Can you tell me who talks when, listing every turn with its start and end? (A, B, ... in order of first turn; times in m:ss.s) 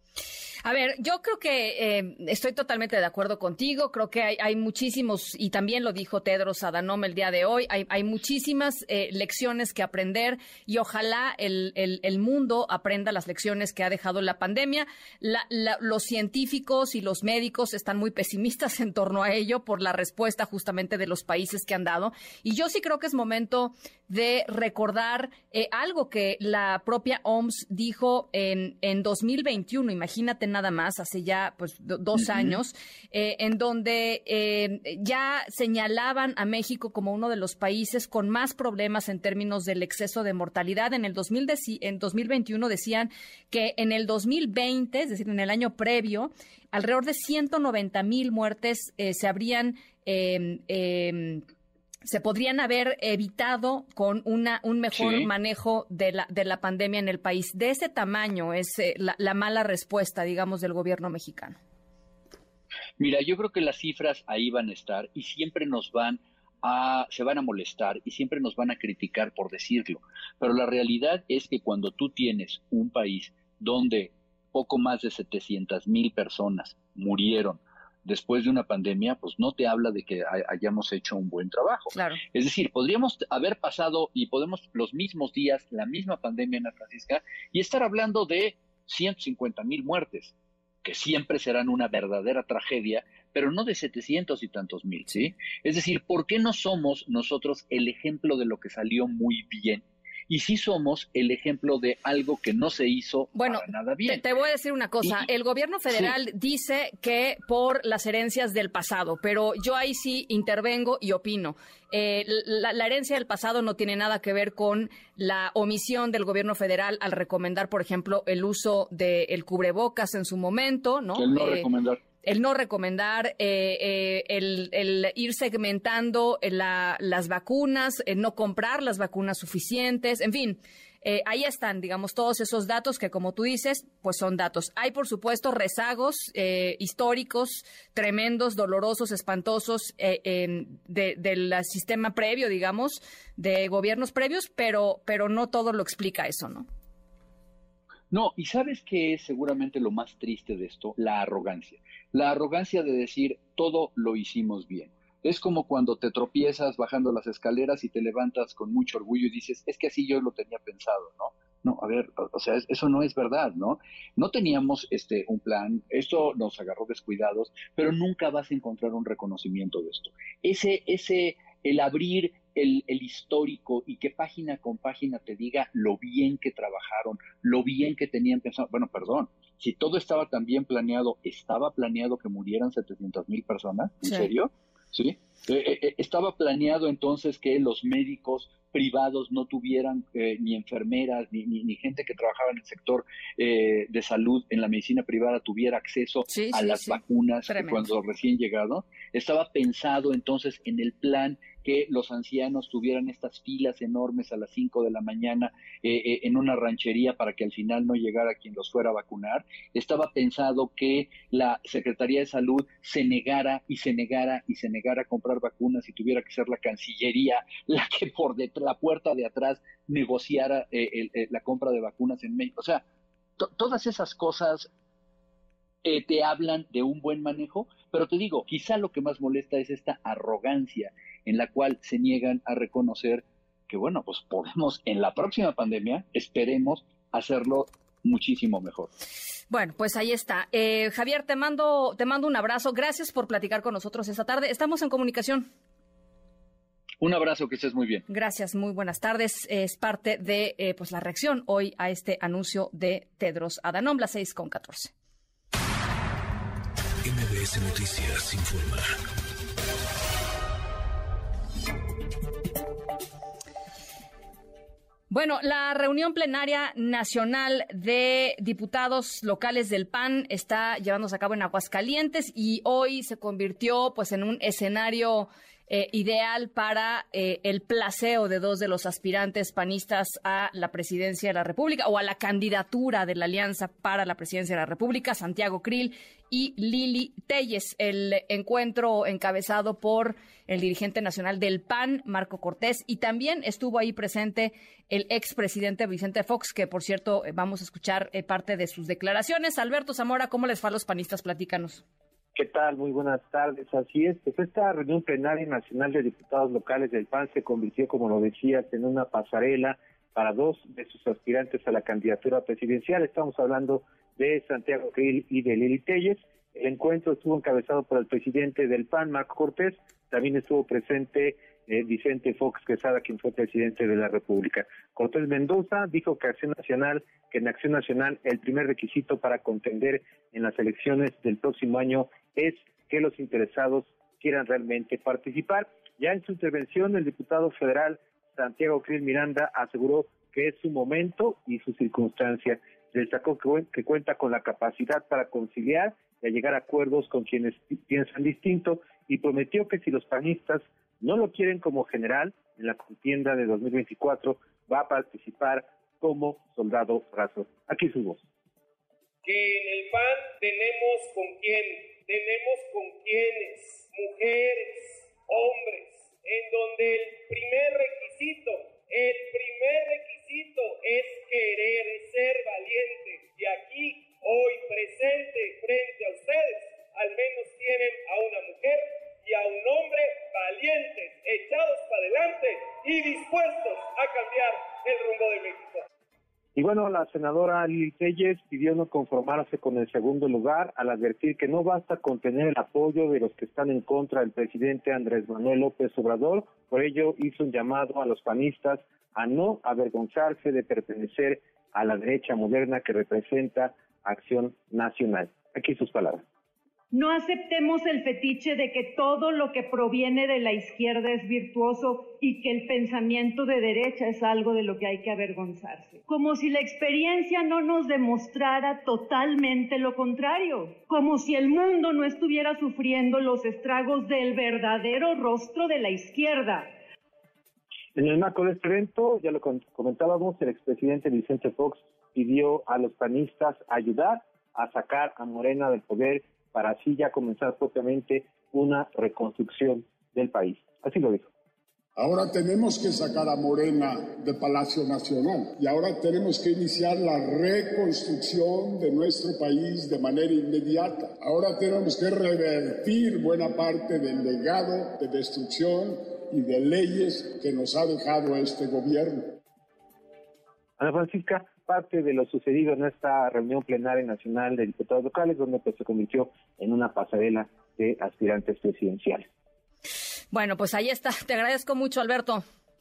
0:00.6-0:51.4 A
0:32.2-0:32.6 B
0:52.0-1:01.6 A
0:54.9-0:55.3 B
1:03.0-1:44.2 B
1:21.9-1:22.2 A
1:43.4-2:01.7 A
1:45.9-1:46.1 B
2:01.2-2:02.0 B
2:02.2-2:26.7 A
2:28.1-3:42.8 B
3:16.3-3:17.9 A
3:43.4-3:44.7 B
3:45.8-3:58.9 B
3:59.5-4:05.5 A
4:07.0-4:08.0 B
4:08.1-4:14.9 A
4:17.0-4:19.0 C
4:25.1-5:01.8 A
5:02.4-5:58.2 D
5:59.2-6:25.8 E
6:26.6-6:46.2 D
6:46.9-7:06.7 F
7:08.0-7:21.3 D
7:22.0-7:39.4 G
7:40.8-7:49.3 D
7:50.3-7:52.4 A